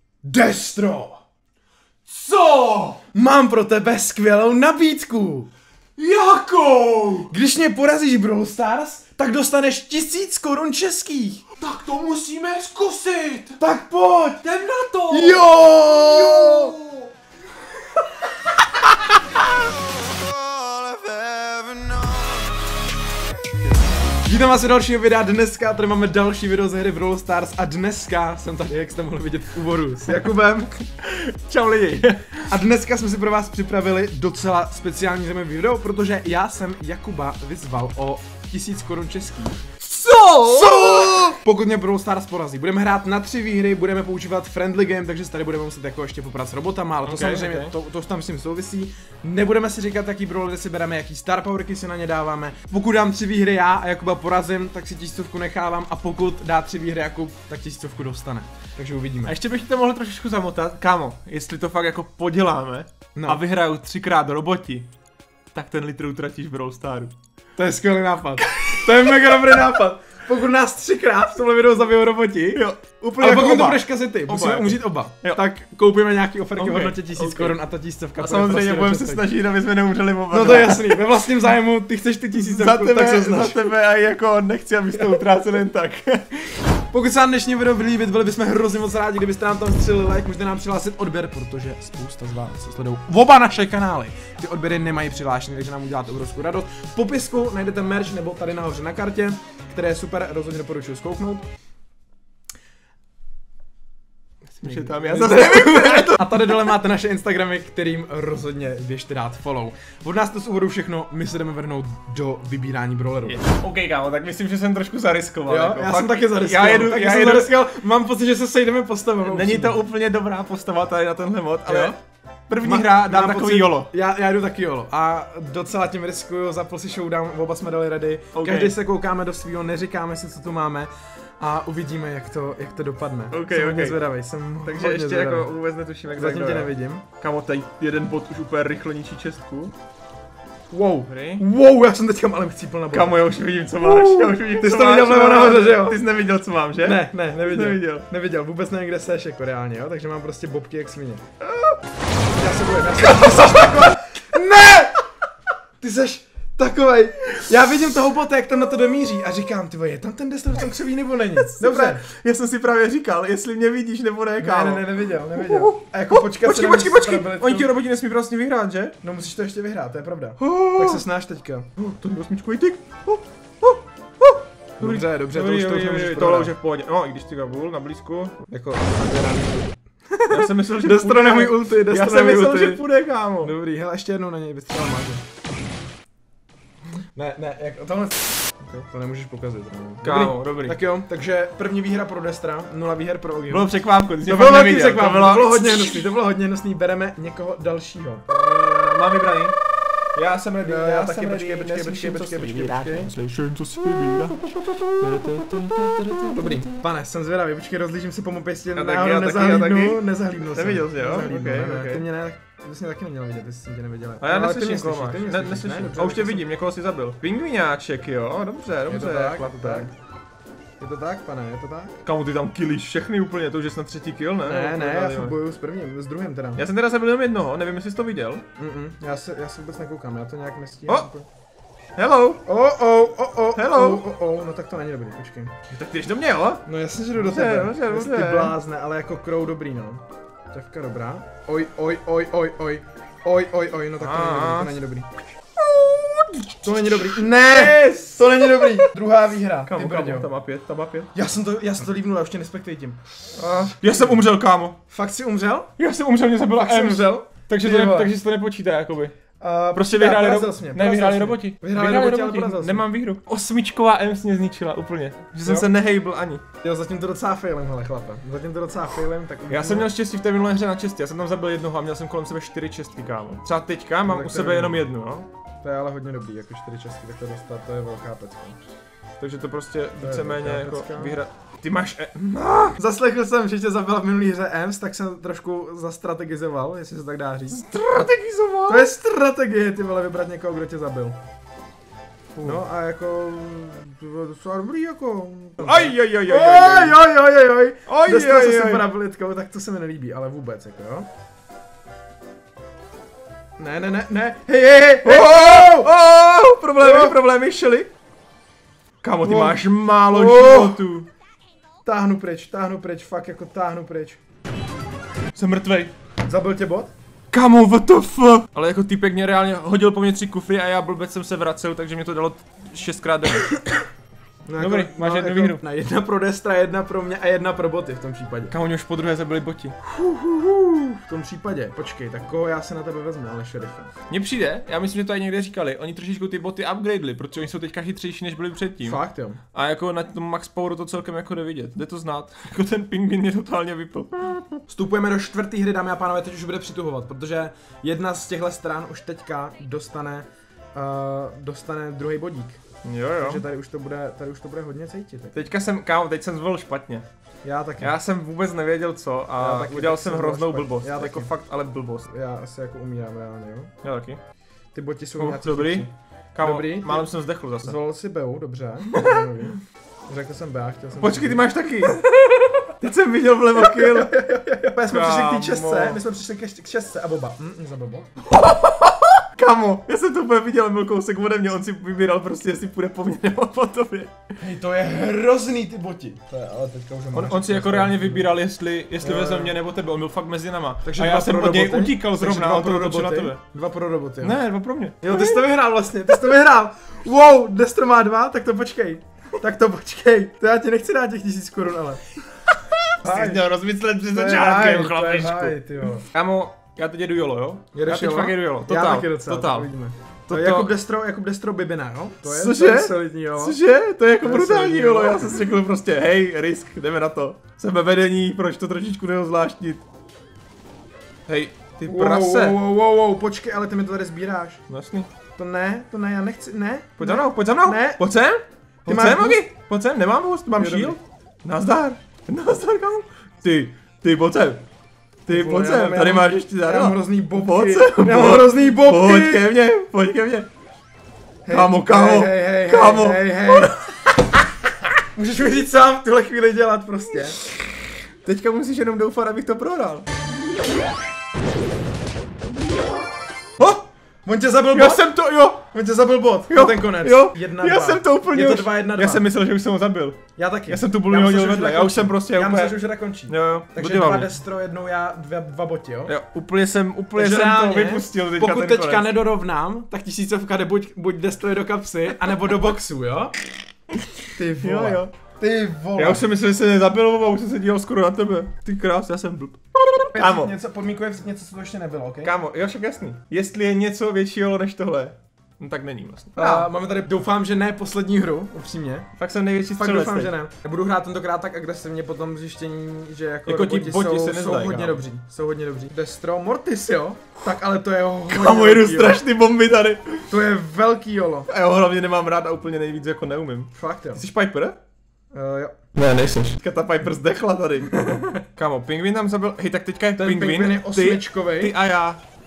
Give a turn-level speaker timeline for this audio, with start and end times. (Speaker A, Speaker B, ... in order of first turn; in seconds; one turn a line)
Speaker A: 0.2-1.2
Speaker B: 2.1-3.0
Speaker A: 3.1-5.5
Speaker B: 6.0-7.3
Speaker A: 7.3-11.4
Speaker B: 11.6-13.6
Speaker A: 13.6-14.4
Speaker B: 14.4-17.1
Speaker A: 15.1-16.7
Speaker B: 20.5-22.2
Speaker A: 24.2-30.3
Speaker B: 30.1-32.5
Speaker A: 32.5-39.6
Speaker B: 39.8-41.3
Speaker A: 40.4-59.4
Speaker B: 47.0-47.7
Speaker B: 59.2-64.9
Speaker A: 63.1-63.4
Speaker B: 65.5-67.1
Speaker A: 67.5-72.6
Speaker B: 72.5-75.5
Speaker A: 73.2-79.3
Speaker B: 76.5-77.6
Speaker B: 78.2-81.0
Speaker A: 80.3-83.6
Speaker B: 82.3-86.6
Speaker A: 86.9-101.5
Speaker B: 104.6-106.5
Speaker A: 104.6-113.4
Speaker B: 113.2-117.6
Speaker A: 115.5-119.8
Speaker B: 119.2-122.0
Speaker A: 121.7-122.0
Speaker B: 122.5-123.9
Speaker A: 122.6-135.5
Speaker B: 128.3-128.8
Speaker B: 133.3-134.0
Speaker B: 134.6-139.7
Speaker A: 136.1-137.0
Speaker A: 140.7-143.2
Speaker B: 141.1-141.4
Speaker B: 142.9-148.1
Speaker A: 143.8-146.0
Speaker A: 146.8-151.2
Speaker A: 152.3-155.0
Speaker B: 153.2-153.9
Speaker A: 155.8-162.0
Speaker B: 161.4-169.0
Speaker A: 164.4-167.7
Speaker A: 169.0-171.7
Speaker B: 170.4-171.0
Speaker B: 171.8-178.4
Speaker A: 174.8-176.5
Speaker A: 178.5-182.8
Speaker B: 180.3-183.5
Speaker A: 183.4-185.2
Speaker A: 187.1-193.7
Speaker B: 190.0-190.8
Speaker B: 193.5-196.0
Speaker A: 194.2-198.2
Speaker B: 198.3-199.6
Speaker B: 200.1-206.6
Speaker A: 200.6-203.1
Speaker A: 206.3-216.5
Speaker B: 208.7-212.1
Speaker B: 214.2-219.9
Speaker A: 218.9-219.9
Speaker A: 220.8-222.0
Speaker B: 222.0-225.3
Speaker A: 224.4-226.6
Speaker B: 226.6-228.4
Speaker A: 228.6-231.3
Speaker B: 231.9-232.4
Speaker A: 232.4-235.5
Speaker B: 233.5-234.1
Speaker B: 235.7-236.6
Speaker A: 236.7-245.1
Speaker B: 237.1-238.6
Speaker B: 244.0-244.7
Speaker B: 245.6-248.9
Speaker A: 246.6-250.3
Speaker B: 249.7-251.1
Speaker A: 251.1-253.0
Speaker B: 253.3-254.8
Speaker A: 253.8-254.2
Speaker A: 254.9-255.7
Speaker B: 255.8-259.1
Speaker A: 256.4-258.1
Speaker A: 259.4-262.8
Speaker B: 259.7-266.4
Speaker A: 266.6-269.9
Speaker B: 269.5-275.3
Speaker A: 274.1-274.9
Speaker A: 275.6-278.6
Speaker B: 279.2-282.8
Speaker A: 280.0-281.2
Speaker A: 282.8-287.6
Speaker B: 287.5-288.9
Speaker A: 288.7-291.2
Speaker B: 292.4-292.6
Speaker A: 292.4-301.1
Speaker B: 295.6-297.0
Speaker B: 297.9-298.9
Speaker A: 303.6-305.9
Speaker B: 305.0-307.9
Speaker A: 306.8-307.1
Speaker B: 309.0-311.1
Speaker A: 309.2-310.8
Speaker A: 311.8-314.2
Speaker B: 315.3-315.9
Speaker A: 316.2-316.9
Speaker B: 317.3-323.6
Speaker A: 324.5-328.5
Speaker B: 324.6-325.6
Speaker B: 328.5-329.8
Speaker A: 329.9-333.9
Speaker B: 334.1-339.0
Speaker A: 338.8-339.4
Speaker B: 339.5-344.6
Speaker A: 344.7-352.6
Speaker B: 352.8-353.4
Speaker A: 353.2-355.4
Speaker B: 355.3-357.0
Speaker A: 357.4-357.9
Speaker B: 357.8-362.1
Speaker A: 359.4-361.3
Speaker A: 362.1-363.7
Speaker B: 363.8-364.2
Speaker A: 364.7-367.1
Speaker B: 365.2-367.8
Speaker A: 367.6-371.4
Speaker B: 368.9-369.3
Speaker B: 371.0-372.1
Speaker A: 372.2-372.6
Speaker B: 372.8-374.2
Speaker A: 373.6-378.1
Speaker B: 374.9-376.0
Speaker B: 378.3-384.1
Speaker A: 384.4-388.3
Speaker B: 387.1-393.4
Speaker A: 389.0-389.5
Speaker A: 390.8-394.4
Speaker B: 394.2-395.5
Speaker A: 395.0-402.0
Speaker B: 403.0-409.7
Speaker A: 403.0-403.5
Speaker A: 404.1-406.1
Speaker A: 407.7-413.6
Speaker B: 410.3-410.7
Speaker B: 412.2-419.8
Speaker A: 414.2-415.4
Speaker B: 421.3-422.6
Speaker A: 421.9-424.6
Speaker B: 424.7-425.1
Speaker A: 425.4-428.0
Speaker B: 427.0-434.6
Speaker A: 428.9-429.4
Speaker A: 430.6-431.0
Speaker B: 435.2-440.5
Speaker A: 435.3-439.5
Speaker A: 441.4-443.7
Speaker B: 441.5-444.0
Speaker A: 445.1-447.4
Speaker B: 448.2-450.1
Speaker B: 453.6-453.8
Speaker A: 454.2-455.1
Speaker B: 454.7-455.6
Speaker A: 455.7-459.2
Speaker B: 456.5-464.3
Speaker A: 460.4-466.1
Speaker B: 466.1-469.1
Speaker A: 467.1-473.4
Speaker A: 474.3-476.2
Speaker B: 474.6-475.1
Speaker B: 475.9-480.5
Speaker A: 480.1-482.3
Speaker B: 482.2-486.7
Speaker A: 486.4-489.1
Speaker B: 489.2-490.4
Speaker A: 489.8-499.2
Speaker B: 493.4-495.0
Speaker B: 498.3-500.3
Speaker A: 500.3-501.5
Speaker B: 501.5-504.8
Speaker A: 503.7-504.2
Speaker A: 505.3-505.8
Speaker B: 505.9-512.2
Speaker A: 510.2-511.7